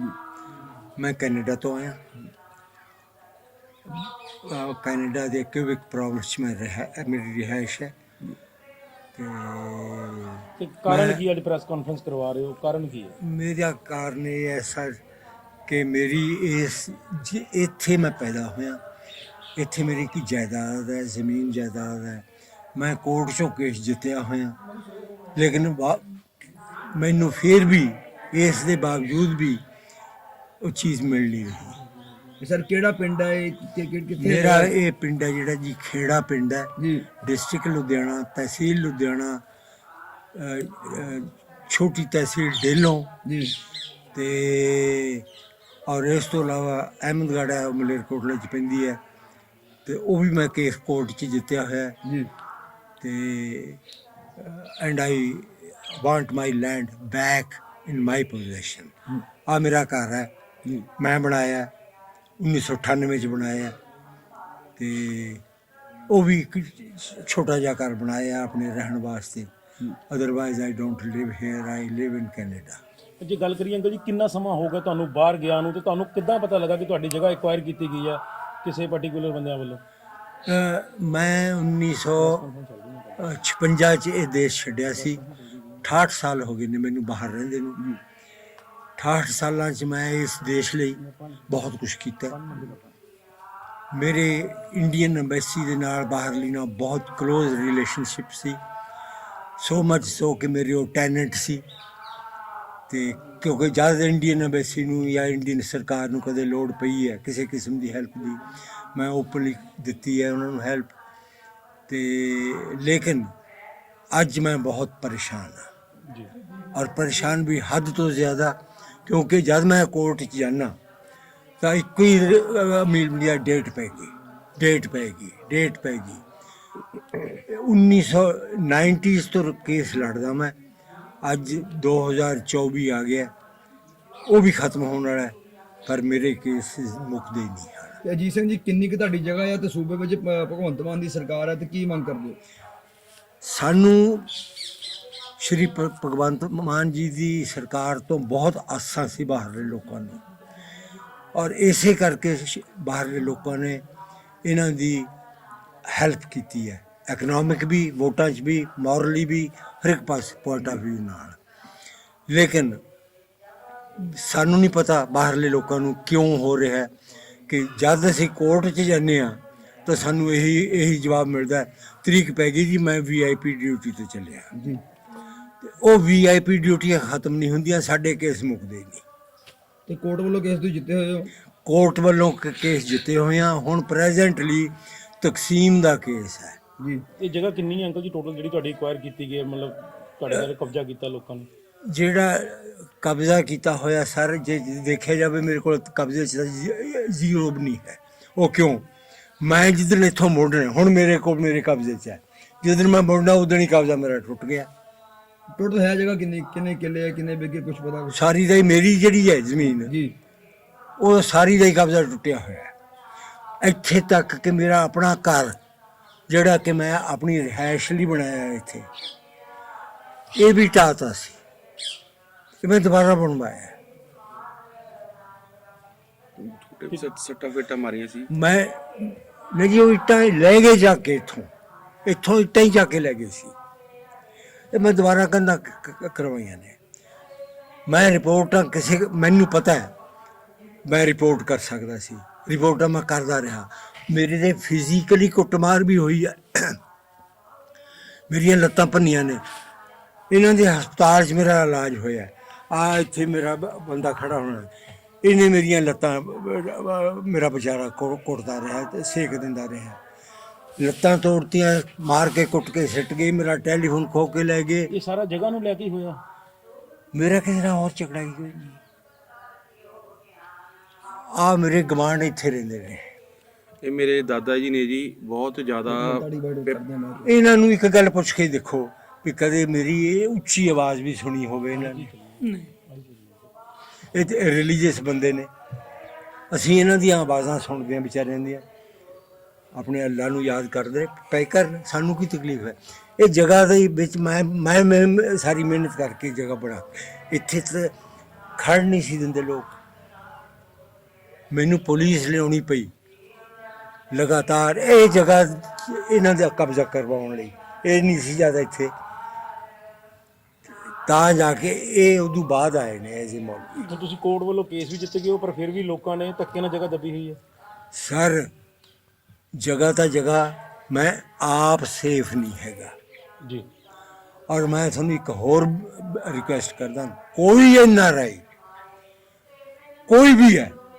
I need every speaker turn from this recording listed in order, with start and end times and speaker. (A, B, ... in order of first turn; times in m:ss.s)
0:01.0-0:02.0 A
0:03.9-0:07.9 A
0:09.2-0:11.2 A
0:10.6-0:13.2 B
0:13.2-0:15.0 A
0:15.7-0:18.8 A
0:19.6-0:24.6 A
0:25.3-0:26.1 A
0:26.9-0:29.6 A
0:30.6-0:31.8 A
0:32.4-0:34.7 C
0:34.2-0:39.4 A
0:36.8-0:37.0 C
0:40.3-0:43.1 A
0:43.2-0:43.5 C
0:44.1-0:45.2 A
0:45.9-0:49.0 A
0:49.8-0:52.0 A
0:52.0-0:52.3 C
0:53.0-0:53.8 A
0:54.4-0:58.9 A
0:59.5-1:00.3 A
1:01.0-1:01.7 A
1:02.4-1:03.7 A
1:04.8-1:05.4 A
1:06.1-1:09.5 A
1:10.1-1:12.8 A
1:13.2-1:19.8 B
1:20.5-1:22.4 A
1:22.2-1:23.4 B
1:23.2-1:25.2 A
1:24.9-1:25.8 B
1:25.8-1:27.8 A
1:29.0-1:32.4 A
1:31.0-1:31.6 B
1:32.3-1:32.9 B
1:33.9-1:38.6 A
1:39.6-1:41.6 A
1:42.9-1:48.4 A
1:48.9-1:50.9 A
1:51.9-1:53.3 A
1:54.1-1:55.7 A
1:56.7-2:00.8 A
2:01.6-2:06.2 A
2:07.1-2:10.5 A
2:11.2-2:13.3 A
2:14.2-2:15.3 A
2:15.8-2:18.0 A
2:18.0-2:22.4 C
2:23.4-2:24.3 A
2:25.4-2:30.2 A
2:31.3-2:33.8 A
2:34.4-2:35.1 A
2:35.9-2:41.4 A
2:42.3-2:42.8 A
2:44.0-2:46.9 A
2:47.5-2:54.5 A
2:54.5-2:54.8 C
2:55.6-2:59.0 A
2:59.9-3:01.3 C
3:01.6-3:06.6 A
3:07.2-3:11.5 B
3:11.9-3:18.8 A
3:19.4-3:24.7 A
3:25.5-3:28.2 C
3:28.1-3:29.9 A
3:29.8-3:30.1 C
3:31.0-3:32.7 A
3:33.6-3:35.6 A
3:36.3-3:38.9 A
3:40.3-3:41.4 A
3:42.6-3:43.7 A
3:46.4-3:48.3 D
3:48.3-3:51.5 A
3:52.0-3:53.5 A
3:54.7-3:56.8 A
3:57.9-3:59.9 A
4:00.8-4:06.8 A
4:08.3-4:09.4 A
4:10.3-4:14.7 A
4:15.2-4:20.0 A
4:20.8-4:24.9 A
4:24.9-4:26.2 B
4:27.1-4:28.8 A
4:31.2-4:33.0 A
4:33.8-4:36.8 D
4:35.9-4:37.3 C
4:37.2-4:42.1 A
4:41.7-4:43.5 B
4:44.1-4:45.5 A
4:46.5-4:48.6 A
4:49.7-4:57.9 A
4:58.6-4:59.8 A
5:01.5-5:02.9 A
5:04.1-5:08.9 A
5:11.0-5:13.8 A
5:13.8-5:17.4 B
5:17.9-5:18.5 A
5:19.6-5:22.9 A
5:24.5-5:28.4 A
5:30.1-5:30.8 A